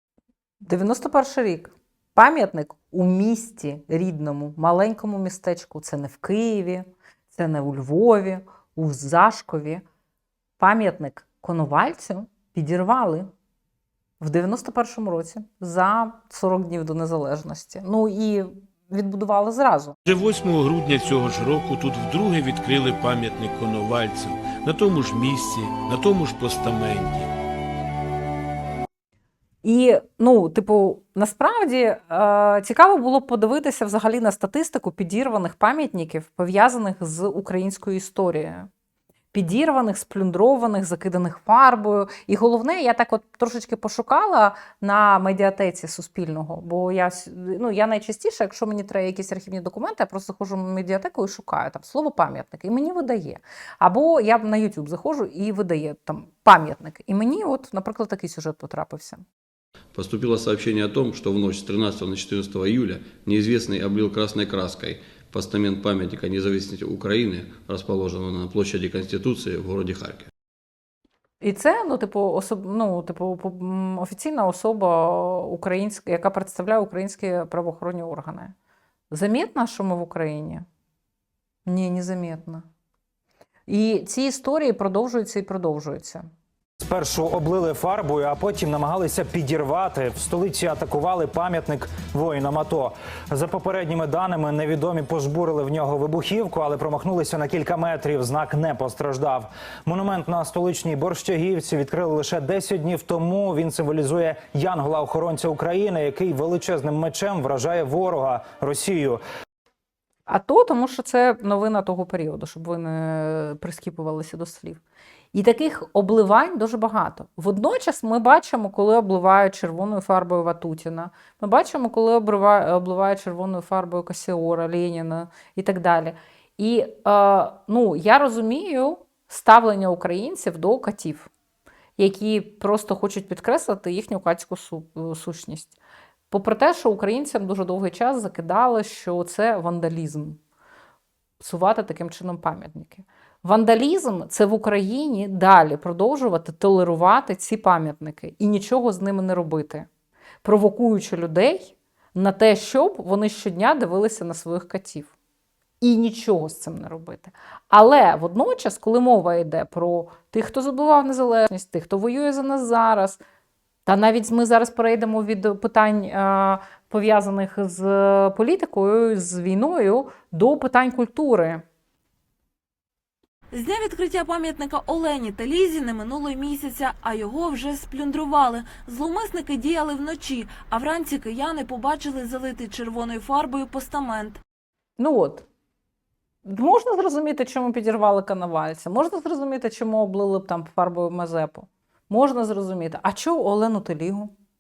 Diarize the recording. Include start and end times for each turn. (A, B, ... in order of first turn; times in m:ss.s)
0:00.6-0:09.8 A
0:10.6-0:13.3 A
0:14.2-0:20.0 A
0:20.1-0:27.3 B
0:29.6-0:38.7 A
0:39.3-0:59.2 A
1:00.0-1:10.3 C
1:11.4-1:18.5 A
1:19.1-1:20.6 A
1:21.7-1:22.6 A
1:23.7-1:26.2 A
1:26.8-1:49.2 D
1:50.3-1:54.8 A
1:55.3-2:11.3 A
2:12.0-2:15.8 A
2:16.3-2:20.4 A
2:21.4-2:29.9 A
2:30.4-2:35.1 A
2:35.8-2:43.2 A
2:43.9-2:51.6 A
2:53.5-3:04.4 E
3:05.0-3:05.4 A
3:06.4-3:14.3 A